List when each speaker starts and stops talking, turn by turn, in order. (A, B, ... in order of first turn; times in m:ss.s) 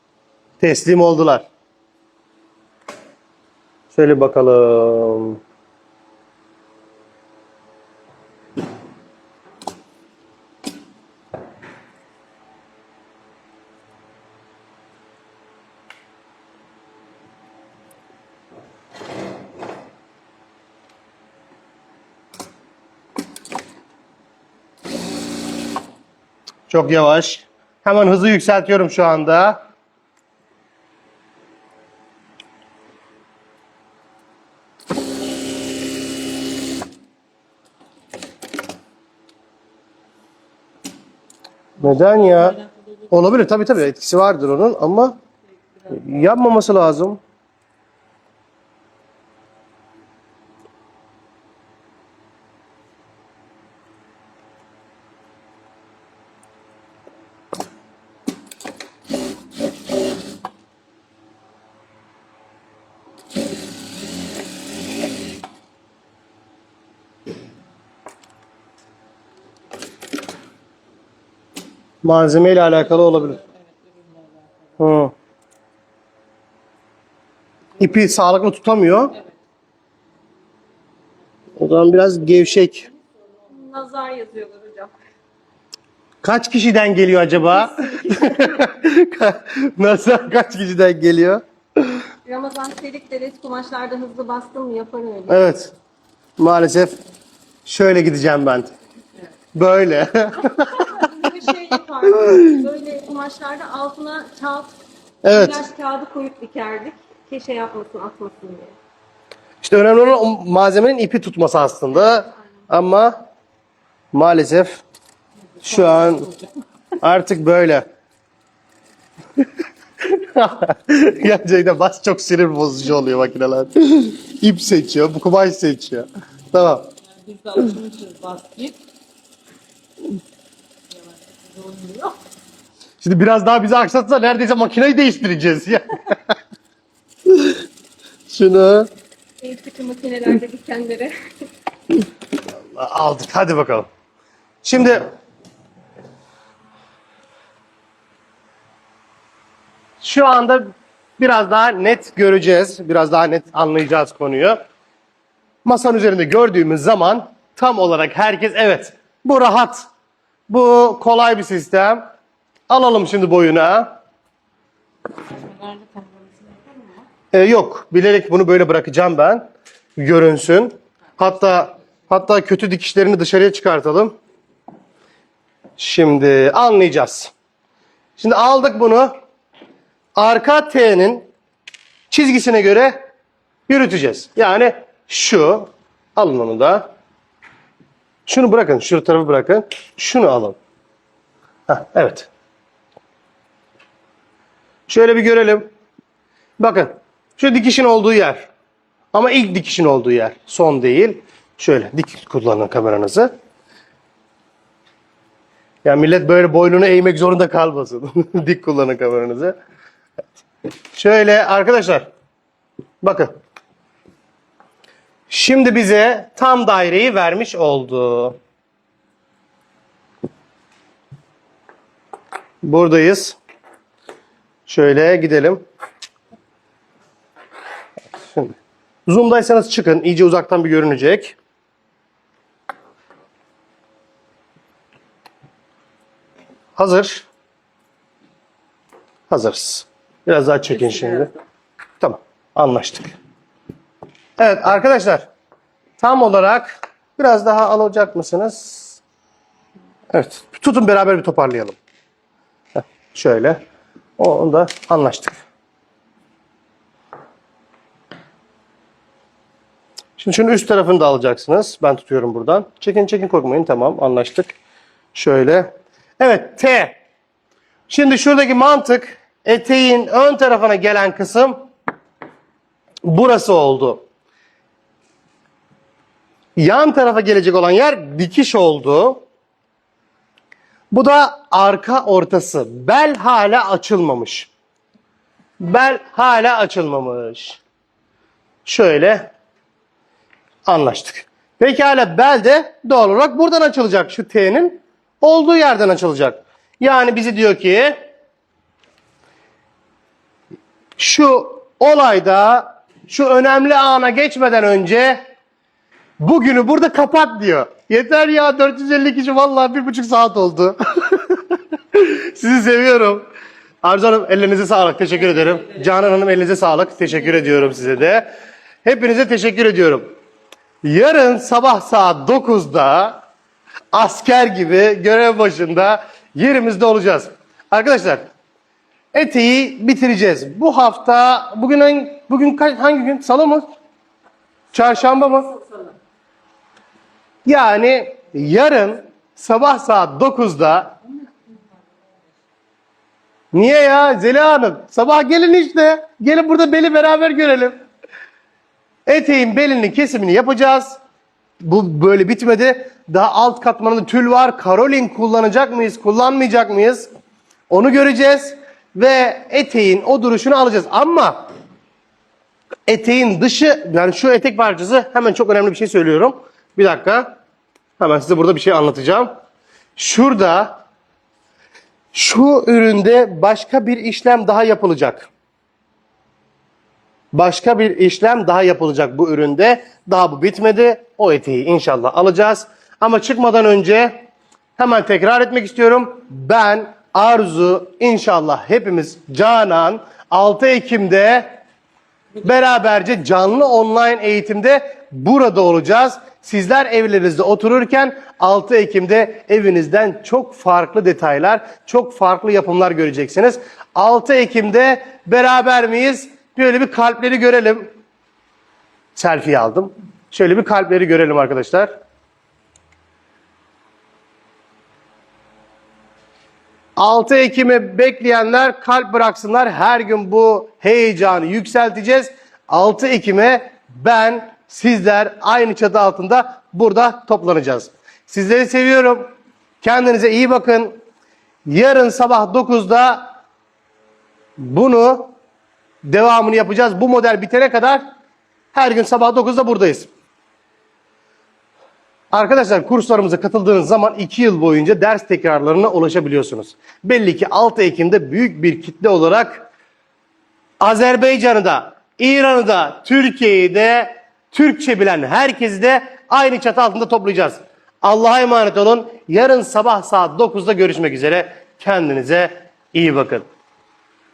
0:00.6-0:01.4 A
0:03.9-0:05.4 A
0:26.7-0:29.6 A
0:41.8-0:42.6 A
0:43.1-0:45.2 A
0:45.9-0:47.2 A
1:12.0-1:13.4 A
1:12.9-1:14.7 B
1:14.8-1:15.1 A
1:17.8-1:19.2 A
1:21.6-1:22.9 A
1:23.5-1:24.9 C
1:26.2-1:31.4 A
1:27.5-1:28.6 C
1:32.2-1:35.5 C
1:35.3-1:35.7 A
1:36.4-1:37.0 A
1:37.6-1:38.7 A
1:39.5-1:41.0 A
1:40.7-1:44.7 C
1:45.2-1:45.6 A
1:45.2-1:48.7 C
1:49.6-1:53.2 A
1:54.1-1:54.8 A
1:55.6-1:56.3 A
1:57.0-1:57.8 A
2:00.0-2:06.9 A
2:07.0-2:08.8 B
2:10.9-2:12.2 B
2:13.0-2:16.0 A
2:18.3-2:18.9 A
2:19.4-2:21.1 C
2:22.7-2:23.9 A
2:24.6-2:25.1 A
2:30.0-2:34.6 A
2:35.6-2:39.8 A
2:40.5-2:42.1 A
2:42.7-2:44.0 A
2:45.2-2:47.0 B
2:47.3-2:54.2 A
2:55.8-2:57.3 A
2:58.2-2:59.1 A
3:00.2-3:01.2 A
3:02.1-3:03.0 A
3:03.7-3:06.9 A
3:08.3-3:10.6 A
3:11.7-3:12.3 A
3:14.9-3:15.7 A
3:16.6-3:18.5 A
3:19.1-3:23.3 A
3:25.8-3:29.6 A
3:30.9-3:32.1 A
3:33.0-3:33.3 A
3:35.3-3:38.4 A
3:42.6-3:43.4 A
3:44.7-3:45.6 A
3:49.1-3:51.4 A
3:56.8-3:57.3 A
3:59.3-4:01.3 A
4:02.0-4:03.1 A
4:04.4-4:05.3 A
4:06.0-4:09.0 A
4:10.1-4:11.8 A
4:12.7-4:13.6 A
4:14.2-4:15.4 A
4:20.2-4:24.5 A
4:25.1-4:27.0 A
4:27.9-4:31.7 A
4:33.0-4:34.0 A
4:36.6-4:39.2 A
4:40.9-4:44.5 A
4:45.6-4:47.6 A
4:48.6-4:49.3 A
4:50.7-4:58.0 A
5:01.0-5:05.2 A
5:06.2-5:11.4 A
5:11.9-5:13.2 A
5:13.8-5:18.3 A
5:18.8-5:20.1 A
5:20.8-5:23.2 A
5:23.9-5:28.3 A
5:29.1-5:33.6 A
5:34.7-5:35.6 A
5:37.4-5:41.0 A
5:43.5-5:47.8 A
5:49.1-5:51.0 A
5:51.6-5:57.1 A
5:57.7-6:01.5 A
6:02.9-6:07.4 A
6:08.0-6:09.3 A
6:10.0-6:10.8 A
6:12.1-6:15.3 A
6:17.3-6:31.6 A
6:32.4-6:47.9 A
6:49.2-6:51.9 A
6:57.0-7:09.3 A
7:09.8-7:11.0 A
7:11.7-7:13.3 A
7:14.6-7:15.3 A
7:16.0-7:18.0 A
7:18.7-7:20.1 A
7:22.3-7:29.7 A
7:30.8-7:43.5 A